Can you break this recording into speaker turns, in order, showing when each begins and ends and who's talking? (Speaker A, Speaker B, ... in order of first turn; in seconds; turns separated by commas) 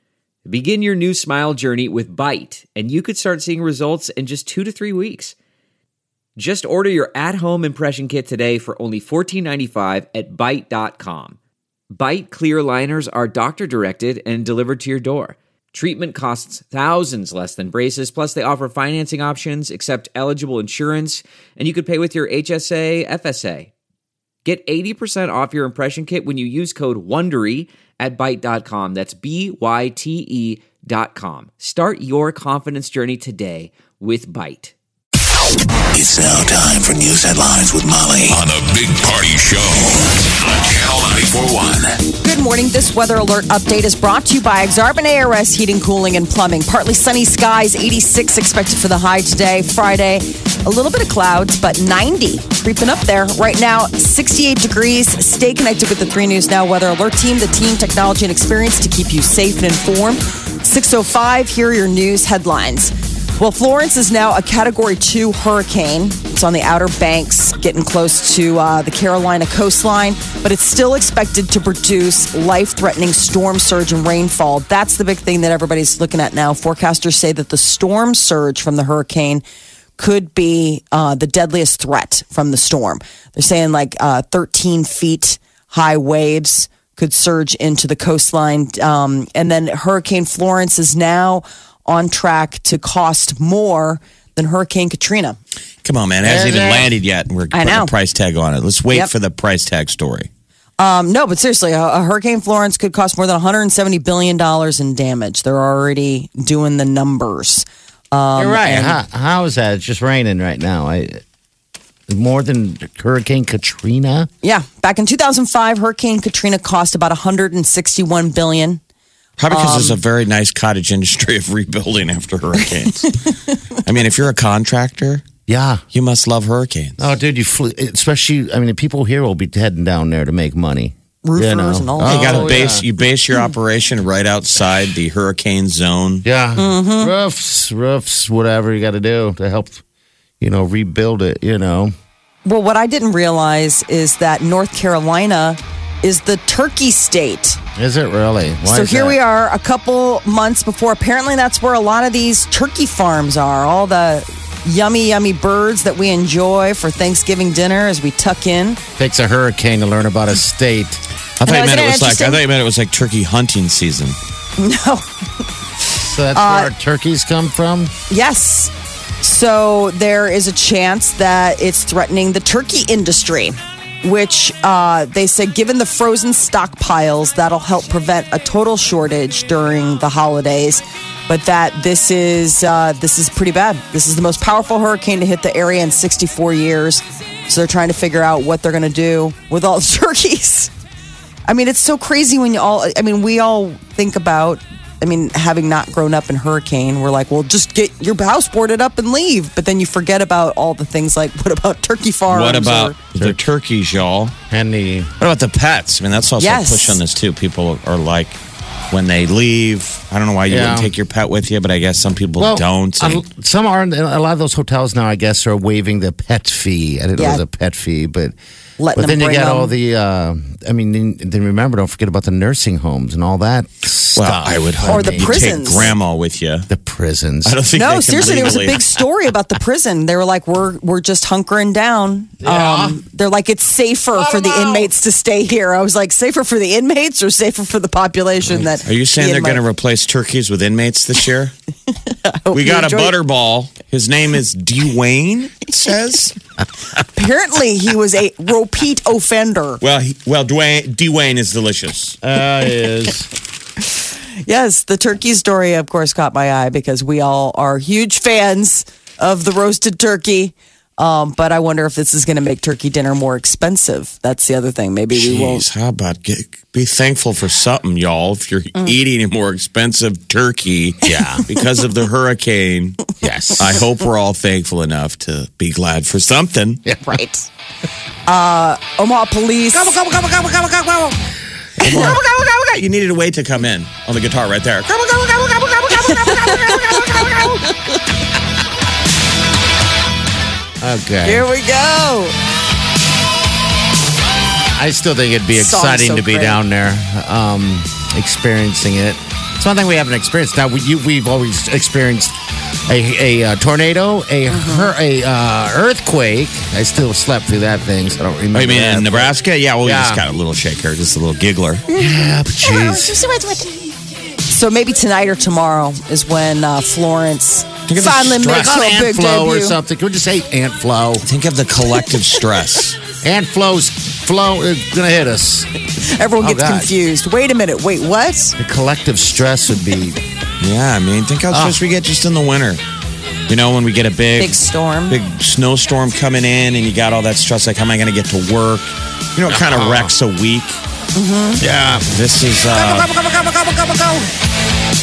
Speaker A: 0.4-5.3, Speaker A: 6.4-11.4, Speaker A: 11.9-23.7, Speaker A: 24.4-34.7, Speaker B: 35.9-42.0, Speaker C: 42.2-79.4, Speaker C: 80.0-95.4, Speaker D: 95.8-100.3, Speaker E: 96.2-96.9, Speaker C: 97.5-97.9, Speaker C: 100.8-109.0, Speaker E: 108.4-111.2, Speaker E: 112.1-114.3, Speaker C: 114.4-118.8, Speaker D: 119.4-123.3, Speaker C: 119.5-120.0, Speaker D: 123.8-125.3, Speaker E: 125.5-125.8, Speaker D: 125.9-127.0, Speaker E: 127.0-132.8, Speaker C: 131.2-132.7, Speaker D: 132.0-136.2, Speaker E: 136.2-139.8, Speaker C: 136.6-137.1, Speaker E: 140.4-141.9, Speaker C: 142.4-147.6, Speaker E: 147.8-149.2, Speaker C: 148.7-158.8, Speaker E: 159.0-161.0, Speaker D: 161.4-164.2, Speaker C: 161.4-162.4, Speaker C: 164.6-165.1, Speaker C: 165.9-166.7, Speaker E: 166.0-167.9, Speaker C: 168.1-190.7, Speaker C: 191.5-202.9, Speaker D: 202.3-204.3, Speaker E: 204.5-205.1, Speaker D: 205.2-208.4, Speaker C: 206.4-207.0, Speaker D: 208.9-213.2, Speaker E: 210.5-210.9, Speaker E: 212.4-218.3, Speaker C: 217.2-217.4, Speaker C: 218.8-219.7, Speaker E: 218.9-225.9, Speaker D: 224.2-226.7, Speaker C: 224.9-225.9, Speaker E: 226.7-227.6, Speaker D: 227.4-229.1, Speaker C: 227.7-239.6, Speaker E: 232.4-233.0, Speaker E: 234.1-234.9, Speaker D: 238.8-241.5, Speaker C: 242.1-243.1, Speaker D: 242.5-246.3, Speaker C: 247.1-249.8, Speaker D: 249.8-252.2, Speaker E: 252.2-253.3, Speaker C: 254.4-265.6, Speaker D: 265.1-276.8, Speaker E: 271.0-271.4, Speaker E: 273.2-273.8, Speaker E: 276.8-277.1, Speaker C: 277.1-277.5, Speaker C: 278.3-279.9, Speaker D: 279.7-281.2, Speaker E: 281.8-282.2, Speaker D: 281.8-287.6, Speaker C: 286.0-287.0, Speaker E: 290.8-291.4, Speaker C: 291.2-292.3, Speaker E: 294.7-310.2, Speaker C: 295.5-296.6, Speaker C: 304.5-304.9, Speaker D: 308.5-311.8, Speaker C: 311.9-313.8, Speaker E: 311.9-313.2, Speaker C: 314.5-319.8, Speaker D: 317.9-318.4, Speaker E: 318.1-321.2, Speaker D: 321.2-323.0, Speaker E: 323.2-325.7, Speaker C: 326.0-328.6, Speaker E: 326.4-326.9, Speaker E: 328.6-330.2, Speaker D: 330.6-332.8, Speaker E: 331.5-331.8, Speaker D: 333.5-340.8, Speaker C: 334.4-335.2, Speaker E: 339.5-340.1, Speaker C: 341.1-341.6, Speaker E: 341.6-342.1, Speaker D: 342.1-344.2